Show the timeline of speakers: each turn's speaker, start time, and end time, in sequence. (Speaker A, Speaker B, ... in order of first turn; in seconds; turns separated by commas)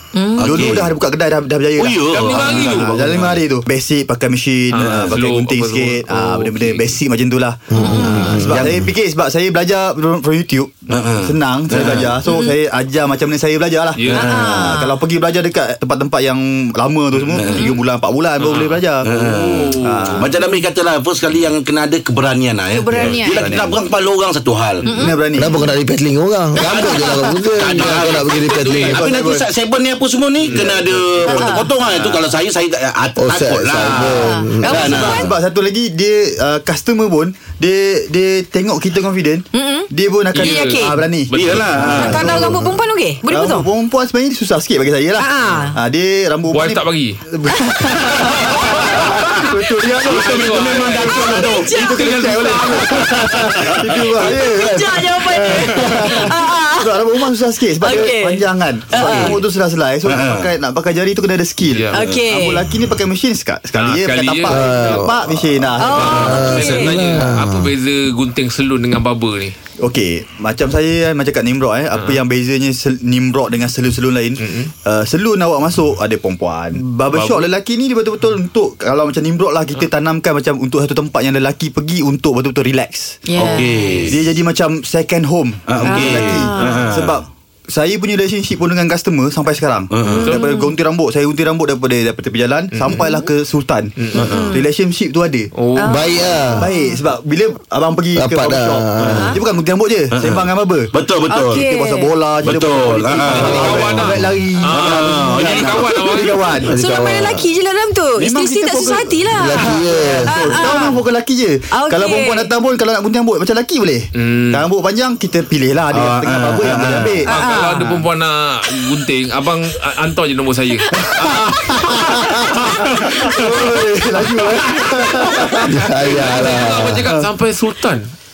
Speaker A: 0.1-0.7, Speaker B: 0.4-0.9, Speaker C: 0.4-20.4, Speaker B: 1.8-3.4, Speaker D: 2.1-3.4, Speaker D: 4.7-7.0, Speaker B: 4.8-5.2, Speaker E: 7.7-8.9, Speaker A: 7.8-8.5, Speaker D: 8.1-8.4, Speaker B: 10.9-12.1, Speaker A: 12.2-12.6, Speaker D: 14.0-14.6, Speaker A: 14.1-15.0, Speaker B: 17.4-17.7, Speaker A: 17.5-17.8, Speaker D: 18.4-20.3, Speaker B: 19.0-24.9, Speaker A: 22.8-23.6, Speaker C: 22.9-23.8, Speaker A: 24.8-25.3, Speaker C: 24.9-25.6, Speaker E: 25.4-29.0, Speaker B: 26.6-35.3, Speaker C: 26.6-27.0, Speaker D: 28.4-29.0, Speaker C: 28.8-29.5, Speaker C: 30.4-32.2, Speaker A: 31.2-31.7, Speaker E: 33.2-35.1, Speaker A: 34.2-35.3, Speaker C: 34.7-42.8, Speaker A: 39.5-41.1, Speaker D: 40.3-42.4, Speaker B: 41.3-42.3, Speaker A: 41.8-43.7, Speaker C: 43.3-66.6, Speaker A: 45.2-45.8, Speaker D: 46.5-47.2, Speaker D: 48.4-49.4, Speaker B: 49.1-51.8, Speaker D: 49.9-53.6, Speaker A: 51.0-52.1, Speaker B: 53.1-54.1, Speaker A: 54.2-57.2, Speaker D: 55.5-56.2, Speaker A: 57.8-59.4, Speaker B: 60.0-60.5, Speaker D: 61.7-62.0, Speaker A: 61.9-62.7, Speaker B: 62.0-62.2, Speaker D: 63.8-65.2, Speaker E: 64.5-65.1, Speaker A: 65.7-67.0, Speaker D: 65.8-69.5, Speaker E: 66.2-67.7, Speaker C: 69.8-83.5, Speaker D: 71.9-72.2, Speaker D: 74.4-74.7, Speaker D: 77.1-77.5, Speaker A: 83.3-84.1, Speaker B: 83.4-84.2, Speaker C: 84.1-95.5, Speaker B: 85.7-87.2, Speaker A: 85.8-86.9, Speaker B: 89.9-90.3, Speaker D: 90.1-90.5, Speaker A: 90.2-90.8, Speaker D: 92.7-93.0, Speaker A: 92.9-93.3, Speaker D: 94.0-94.5, Speaker B: 94.2-94.5, Speaker A: 94.2-94.7, Speaker D: 95.6-96.0, Speaker A: 95.8-97.0, Speaker E: 95.9-96.6, Speaker C: 96.6-106.8, Speaker E: 98.2-99.3, Speaker A: 99.0-99.4, Speaker B: 100.1-101.6, Speaker A: 101.3-102.2, Speaker B: 102.4-103.9, Speaker D: 103.3-106.4, Speaker B: 104.7-106.3, Speaker E: 106.7-107.5, Speaker A: 106.7-111.0, Speaker C: 108.2-118.0, Speaker E: 109.3-110.5, Speaker A: 111.7-112.5, Speaker D: 114.2-114.7, Speaker B: 115.9-117.2, Speaker A: 117.2-117.9, Speaker D: 117.3-123.6, Speaker C: 121.0-127.3, Speaker E: 125.6-127.1, Speaker D: 126.0-128.1